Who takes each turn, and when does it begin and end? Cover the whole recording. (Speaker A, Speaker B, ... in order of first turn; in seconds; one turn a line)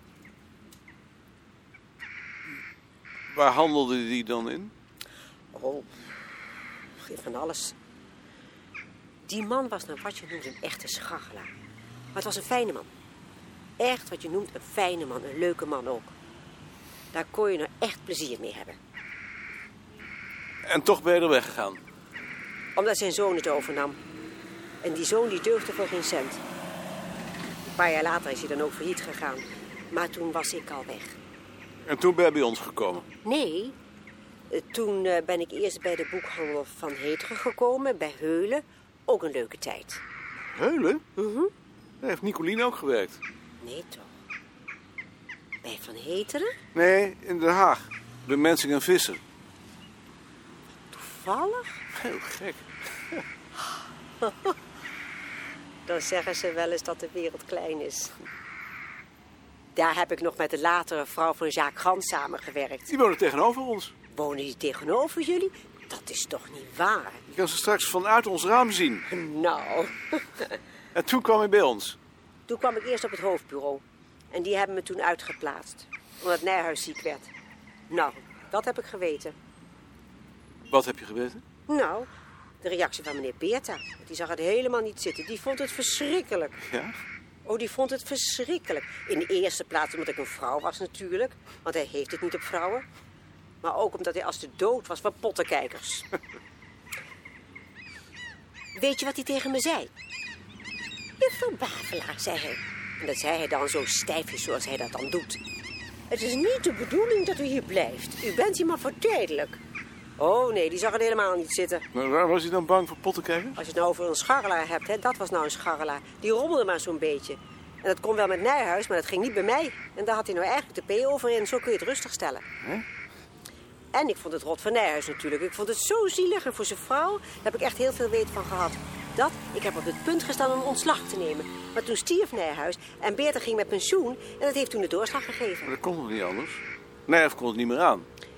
Speaker A: 3.3-4.7
Speaker B: 5.5-6.0
Speaker B: 7.0-7.8
Speaker B: 9.2-11.5
Speaker B: 12.1-12.9
Speaker B: 13.8-16.1
Speaker B: 17.1-18.8
Speaker A: 20.6-21.8
Speaker B: 22.7-24.0
Speaker B: 24.8-26.4
Speaker B: 27.6-31.2
Speaker A: 31.8-33.0
Speaker B: 33.2-33.8
Speaker B: 34.5-40.0
Speaker A: 40.4-41.0
Speaker B: 41.1-41.5
Speaker A: 42.0-43.2
Speaker B: 43.6-44.1
Speaker B: 45.6-46.5
Speaker A: 46.7-49.2
Speaker B: 50.9-51.8
Speaker A: 51.9-52.7
Speaker B: 54.2-54.5
Speaker B: 55.9-58.1
Speaker B: 59.7-62.9
Speaker A: 62.9-63.9
Speaker B: 64.1-67.2
Speaker A: 67.3-69.1
Speaker B: 69.1-70.5
Speaker A: 70.9-72.0
Speaker B: 72.5-77.3
Speaker B: 77.9-79.3
Speaker A: 80.7-81.4
Speaker B: 81.7-82.1
Speaker B: 82.6-86.6
Speaker A: 86.7-86.9
Speaker B: 87.4-92.8
Speaker B: 93.6-96.1
Speaker B: 98.7-99.9
Speaker B: 101.2-105.4
Speaker B: 106.1-109.6
Speaker B: 110.2-111.8
Speaker A: 111.9-113.6
Speaker B: 113.6-122.4
Speaker B: 123.9-135.7
Speaker A: 135.6-138.1